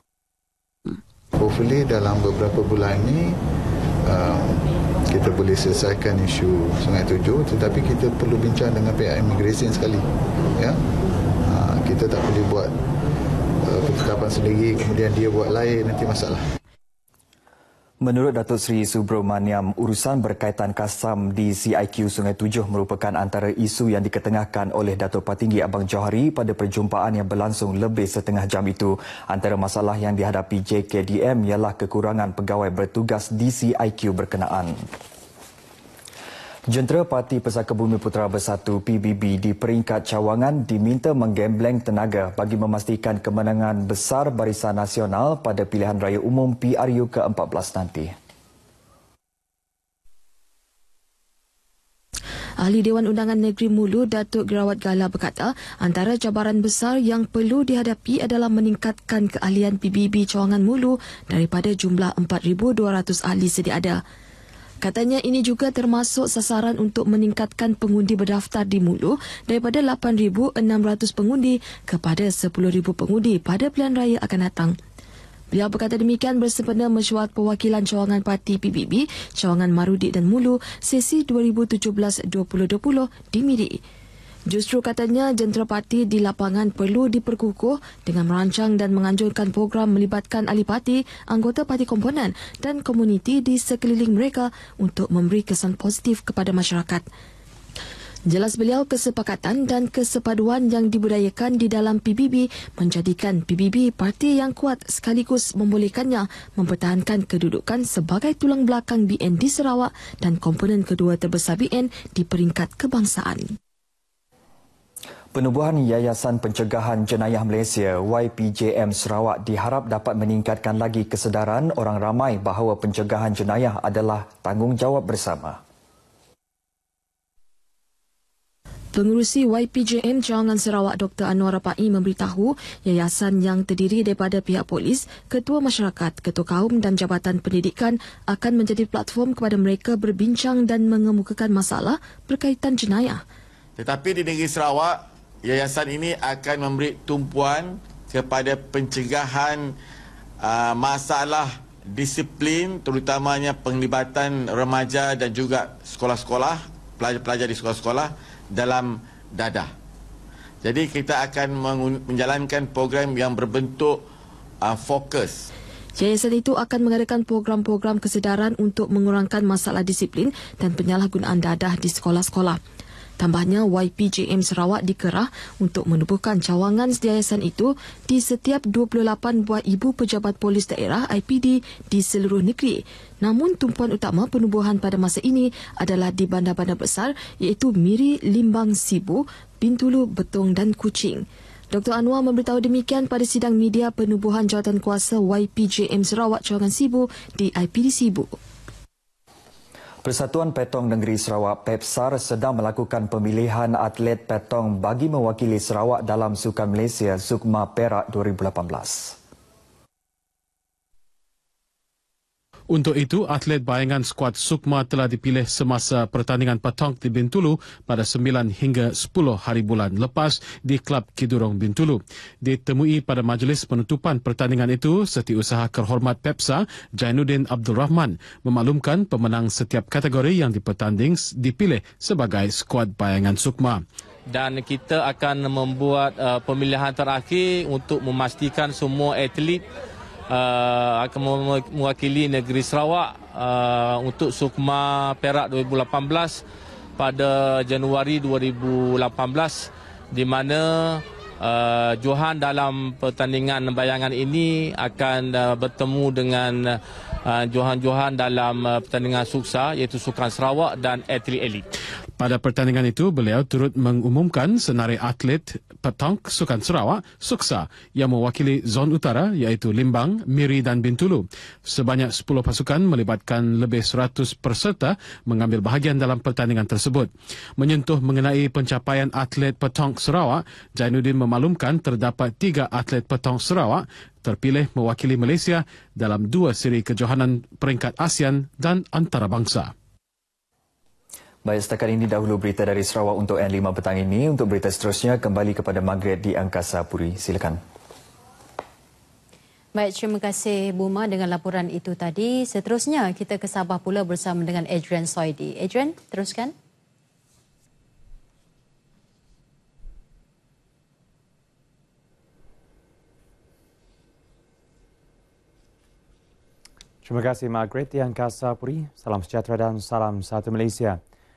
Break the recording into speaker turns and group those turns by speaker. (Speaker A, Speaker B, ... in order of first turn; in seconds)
Speaker A: 1.3-3.4, 4.0-10.1, 10.6-10.8, 11.4-12.8, 13.6-16.5
Speaker B: 18.0-34.9, 36.7-48.1, 115.3-125.6, 200.0-209.2, 291.4-297.6
Speaker C: 52.6-64.0, 64.8-74.8, 75.5-83.8, 84.5-97.0, 98.3-113.5, 128.9-143.2, 166.0-172.6, 173.2-198.4
Speaker D: 143.8-149.7, 150.4-159.7, 160.6-164.0, 164.6-165.4
Speaker E: 212.7-233.8, 262.2-289.7
Speaker F: 234.3-239.6, 240.3-246.4, 247.0-261.7
Speaker G: 299.7-306.5
Speaker H: 317.0-321.0